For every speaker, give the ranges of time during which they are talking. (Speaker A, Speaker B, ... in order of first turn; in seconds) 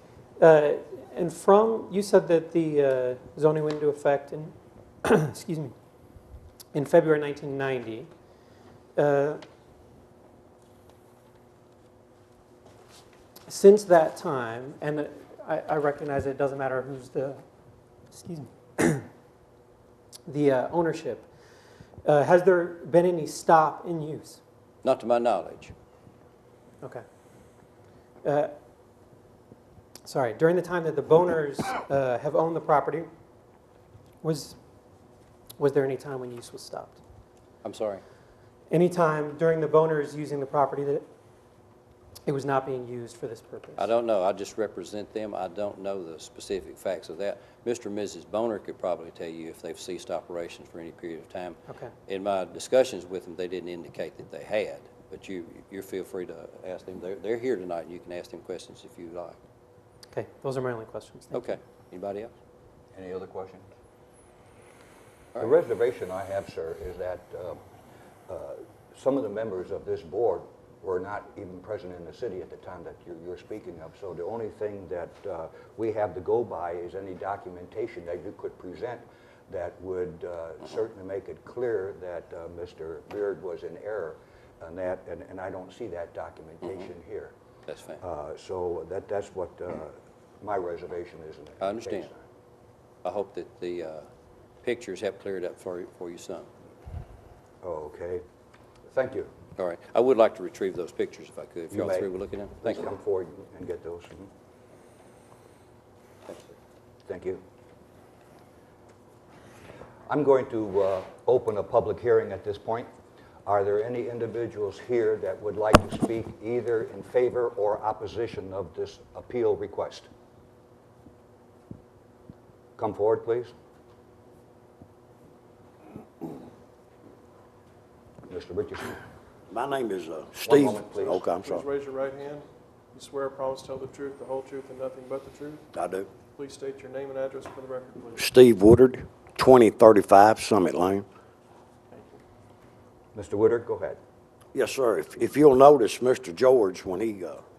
Speaker A: 0.4-4.5, 5.0-5.7, 6.7-8.1, 9.0-9.4, 13.5-17.4, 18.1-19.1, 20.3-21.3, 22.1-24.4, 28.2-28.5, 30.1-33.1, 34.2-34.6, 35.6-37.0, 38.7-41.1, 42.3-43.9, 51.7-51.9, 60.1-61.5
Speaker B: 24.8-25.7, 37.6-38.0, 43.8-59.4, 61.3-62.3, 87.7-88.0, 91.6-92.1, 93.0-94.1, 94.6-96.5, 99.6-102.9, 106.3-106.5
Speaker C: 62.9-63.6, 65.3-67.6, 68.3-87.3, 88.0-92.2, 97.6-98.2, 98.9-99.3, 101.7-102.1, 102.6-104.3, 107.1-107.4, 110.1-112.9, 113.5-120.1, 122.8-123.5, 128.3-129.0, 130.4-131.2, 143.2-144.0
Speaker D: 129.5-131.7, 135.7-136.1, 138.2-141.1, 144.5-147.4
Speaker E: 131.0-135.6, 136.4-138.3, 141.9-142.2